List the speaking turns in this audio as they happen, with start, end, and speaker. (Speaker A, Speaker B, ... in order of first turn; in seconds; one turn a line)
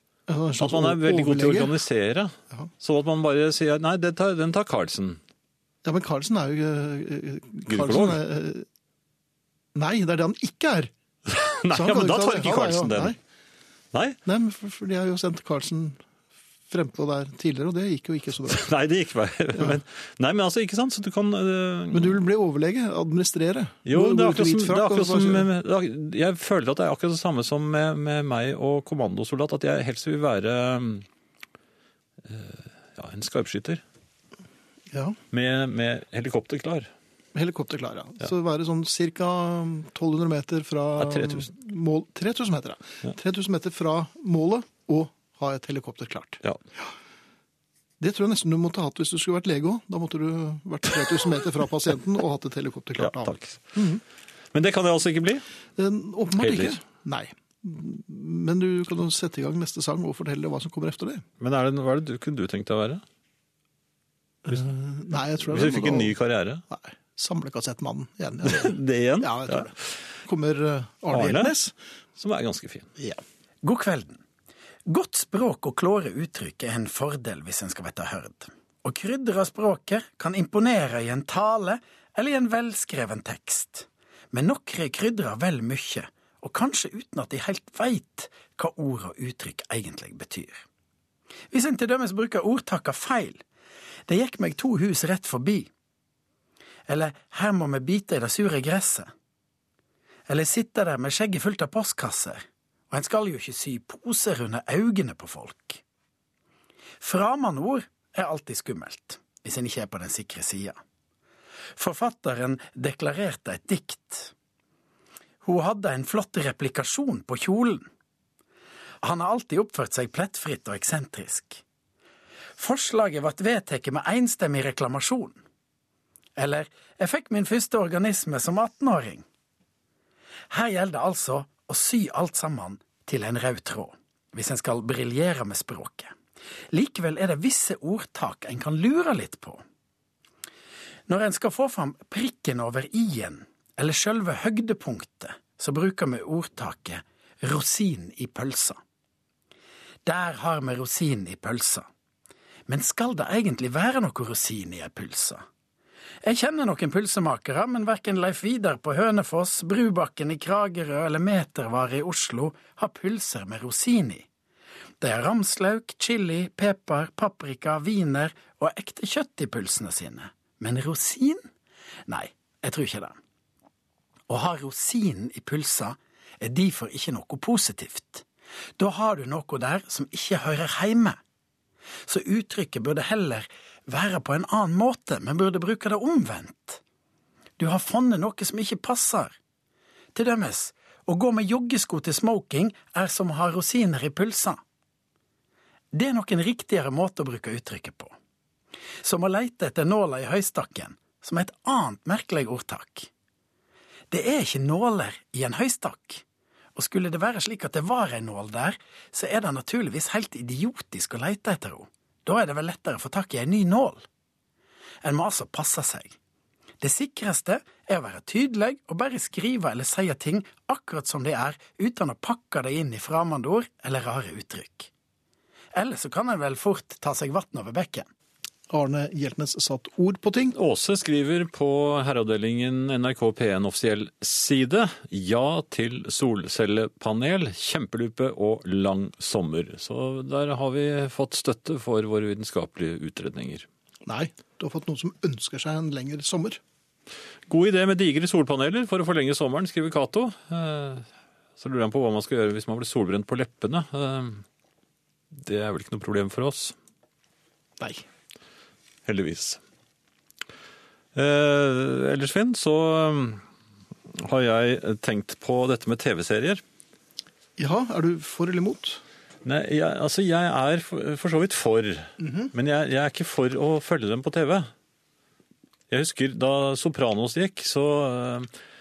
Speaker A: 0.3-1.8
Speaker B: 0.6-5.2
Speaker A: 5.8-8.7
Speaker B: 7.7-8.2
Speaker A: 9.8-10.9
Speaker B: 11.3-13.2
Speaker A: 11.7-13.2
Speaker B: 13.9-14.2
Speaker A: 14.2-16.0
Speaker A: 16.7-18.7
Speaker B: 18.5-22.2
Speaker A: 21.9-25.5
Speaker B: 23.9-31.1
Speaker B: 32.2-33.8
Speaker A: 34.9-35.2
Speaker B: 35.3-36.9
Speaker A: 37.4-46.4
Speaker B: 41.0-41.5
Speaker A: 48.0-54.0
Speaker B: 53.0-53.6
Speaker B: 54.5-55.5
Speaker A: 55.8-61.2
Speaker B: 56.4-56.8
Speaker B: 61.4-63.0
Speaker A: 64.5-66.2
Speaker B: 65.5-66.6
Speaker A: 66.7-69.7
Speaker B: 68.4-69.7
Speaker A: 70.2-71.7
Speaker B: 71.1-71.5
Speaker B: 72.2-72.9
Speaker C: 73.6-74.2
Speaker C: 74.9-90.6
Speaker C: 91.5-93.4
Speaker C: 94.1-95.7
Speaker C: 96.9-99.1
Speaker C: 100.3-105.8
Speaker C: 107.0-110.8
Speaker C: 111.8-114.3
Speaker C: 115.4-117.9
Speaker C: 119.0-121.6
Speaker C: 122.6-125.4
Speaker C: 126.4-129.2
Speaker C: 130.5-136.1
Speaker C: 136.7-139.6
Speaker C: 141.1-148.8
Speaker C: 150.1-151.9
Speaker C: 152.7-155.4
Speaker C: 156.2-164.3
Speaker C: 165.0-171.5
Speaker C: 172.1-173.2
Speaker C: 174.3-178.2
Speaker C: 178.8-181.2
Speaker C: 182.1-186.8
Speaker C: 187.6-189.3
Speaker C: 190.2-194.6
Speaker C: 195.9-198.2
Speaker C: 199.0-203.1
Speaker C: 204.1-206.2
Speaker C: 206.8-214.0
Speaker C: 215.0-216.1
Speaker C: 216.8-224.9
Speaker C: 225.7-228.1
Speaker A: 228.7-230.6
Speaker B: 230.5-243.7
Speaker A: 244.1-246.6
Speaker B: 247.5-254.4
Speaker B: 255.4-256.8
Speaker B: 259.1-259.6
Speaker B: 261.1-263.4
Speaker B: 264.1-266.6
Speaker A: 267.6-269.0
Speaker B: 269.4-274.7
Speaker A: 272.2-272.5
Speaker B: 275.9-278.5